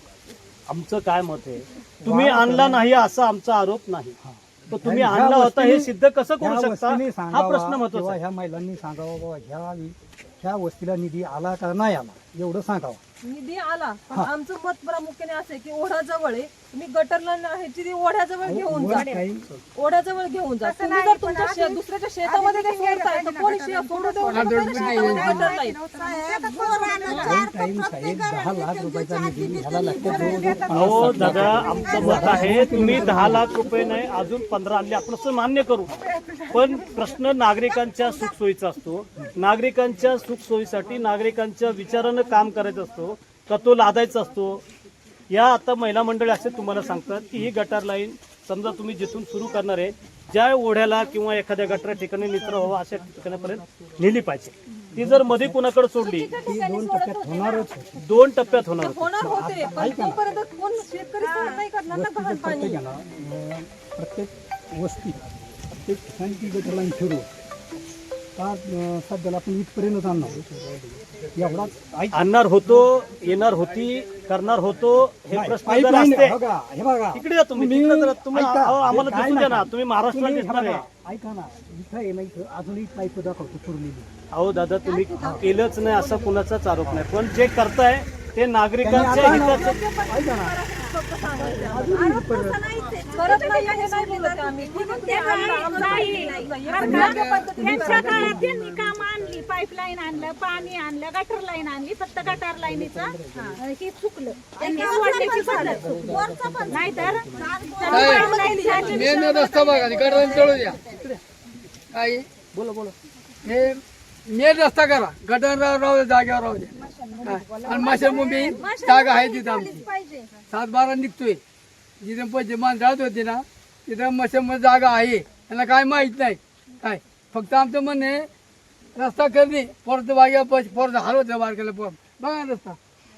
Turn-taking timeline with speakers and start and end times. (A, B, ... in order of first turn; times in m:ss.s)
0:00.7-0:04.2 A
0:02.0-0:02.8 B
0:04.2-0:13.0 B
0:04.7-0:08.2 A
0:13.2-0:19.2 C
0:18.4-0:19.5 B
0:19.7-0:25.8 C
0:24.3-0:25.6 D
0:26.2-0:28.0 E
0:26.9-0:27.4 C
0:27.2-0:33.5 B
0:30.7-0:35.9 A
0:36.5-0:44.6 A
0:45.3-0:56.3 A
0:54.9-0:55.6 B
0:56.0-0:57.7 C
0:56.4-0:58.0 B
0:58.0-0:59.1 A
0:58.8-1:02.8 C
0:59.2-1:00.2 B
1:01.9-1:07.3 B
1:08.4-1:12.2 B
1:12.1-1:16.4 A
1:15.3-1:24.1 B
1:17.1-1:20.8 A
1:24.3-1:29.8 A
1:24.9-1:26.4 C
1:25.2-1:25.5 B
1:28.8-1:30.6 B
1:28.9-1:32.2 C
1:31.4-1:32.6 B
1:31.9-1:37.2 E
1:32.8-1:38.4 C
1:36.7-1:38.4 D
1:36.9-1:39.1 B
1:37.8-1:49.0 E
1:42.2-1:43.6 B
1:44.6-1:46.0 C
1:45.4-1:47.6 B
1:47.8-1:50.6 C
1:47.9-1:50.8 D
1:50.9-1:51.2 A
1:51.9-1:52.2 D
1:52.5-1:52.9 A
1:53.4-1:59.8 D
1:58.1-1:58.8 E
1:59.7-2:00.3 E
2:00.4-2:01.4 D
2:02.0-2:08.3 D
2:08.9-2:12.8 D